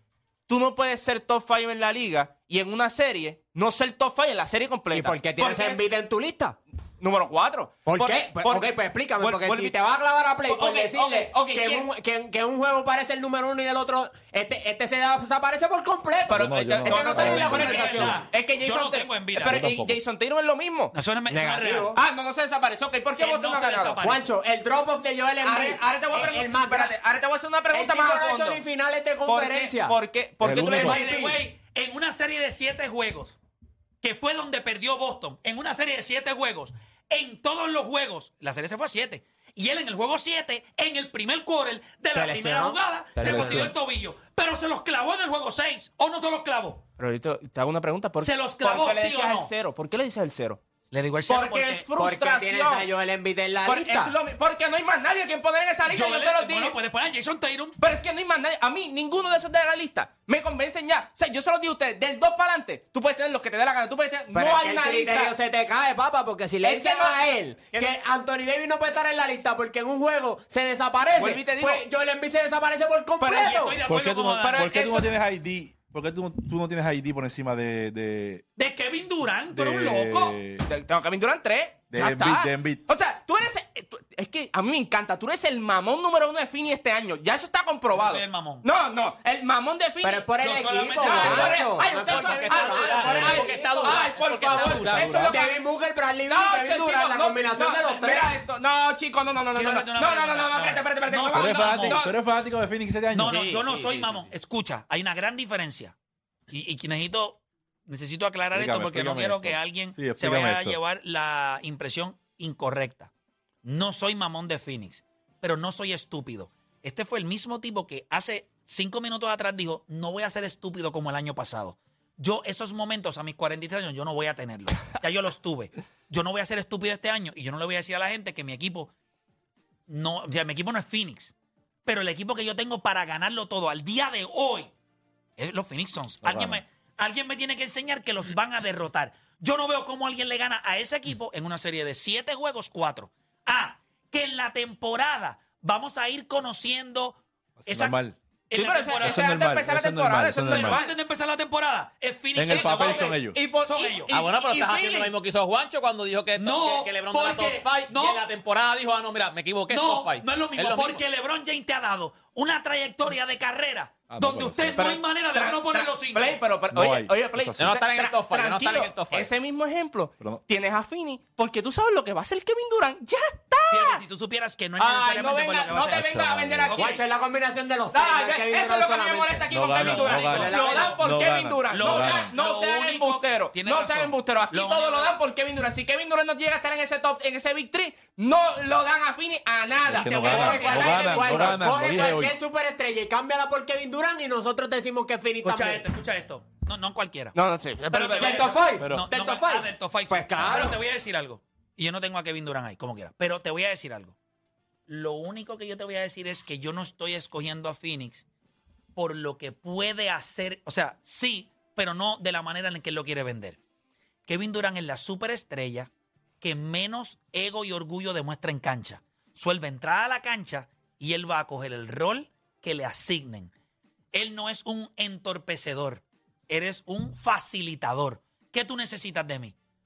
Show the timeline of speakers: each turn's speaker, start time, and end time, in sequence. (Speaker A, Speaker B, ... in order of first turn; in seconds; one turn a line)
Speaker A: 0.5-5.8
Speaker B: 4.9-6.6
Speaker A: 7.0-9.8
Speaker B: 7.8-18.2
Speaker A: 10.4-11.9
Speaker A: 16.3-24.0
Speaker C: 16.3-18.2
Speaker D: 17.2-19.6
Speaker C: 19.4-20.0
Speaker D: 20.9-21.9
Speaker B: 21.3-21.9
Speaker D: 23.1-24.3
Speaker B: 24.0-26.9
Speaker A: 25.4-28.6
Speaker B: 27.7-29.9
Speaker A: 29.2-31.1
Speaker C: 30.4-31.0
Speaker B: 30.7-31.4
Speaker D: 30.8-33.4
Speaker D: 34.0-46.8
Speaker B: 42.1-43.7
Speaker A: 43.2-43.6
Speaker A: 47.0-50.6
Speaker D: 48.2-49.5
Speaker D: 50.9-51.8
Speaker A: 51.3-52.9
Speaker B: 51.9-54.1
Speaker A: 53.6-56.7
Speaker D: 55.9-57.8
Speaker A: 57.8-65.3
Speaker B: 64.3-73.8
Speaker A: 66.6-68.0
Speaker A: 71.1-71.8
Speaker A: 73.2-73.8
Speaker D: 73.4-74.8
Speaker C: 73.8-78.5
Speaker A: 74.4-75.1
Speaker D: 78.6-80.3
Speaker C: 79.5-80.6
Speaker A: 80.6-95.6
Speaker C: 81.9-82.8
Speaker D: 87.9-88.6
Speaker B: 90.0-93.6
Speaker D: 90.4-91.7
Speaker E: 91.8-95.3
Speaker D: 92.9-93.5
Speaker D: 94.5-94.9
Speaker C: 94.8-95.4
Speaker B: 95.2-98.4
Speaker A: 96.3-102.2
Speaker D: 99.5-102.0
Speaker C: 101.3-103.5
Speaker D: 103.1-105.9
Speaker E: 103.2-104.3
Speaker D: 106.5-113.1
Speaker C: 108.5-110.8
Speaker D: 113.6-128.9
Speaker D: 129.9-131.3
Speaker D: 131.8-134.7
Speaker D: 135.4-149.3
Speaker C: 136.2-136.6
Speaker C: 147.6-148.2
Speaker A: 148.5-151.0
Speaker C: 149.0-150.8
Speaker D: 150.4-154.1
Speaker C: 152.3-153.4
Speaker A: 152.5-155.1
Speaker E: 154.1-161.0
Speaker D: 156.4-158.2
Speaker D: 159.7-166.4
Speaker C: 164.1-164.9
Speaker A: 164.7-174.0
Speaker C: 166.7-167.7
Speaker E: 167.6-169.3
Speaker D: 173.7-176.0
Speaker A: 174.8-177.0
Speaker C: 175.9-176.7
Speaker D: 176.7-177.0
Speaker B: 176.7-181.0
Speaker A: 177.9-191.5
Speaker C: 179.5-182.3
Speaker D: 179.8-181.0
Speaker D: 181.7-185.1
Speaker C: 189.8-192.4
Speaker D: 189.9-191.5
Speaker B: 190.3-195.8
Speaker D: 195.4-197.3
Speaker A: 197.3-198.6
Speaker D: 197.9-204.1
Speaker B: 198.2-200.8
Speaker C: 198.8-199.1
Speaker D: 204.9-208.2
Speaker D: 208.9-213.6
Speaker D: 214.3-215.9
Speaker D: 216.4-223.5
Speaker D: 224.1-229.5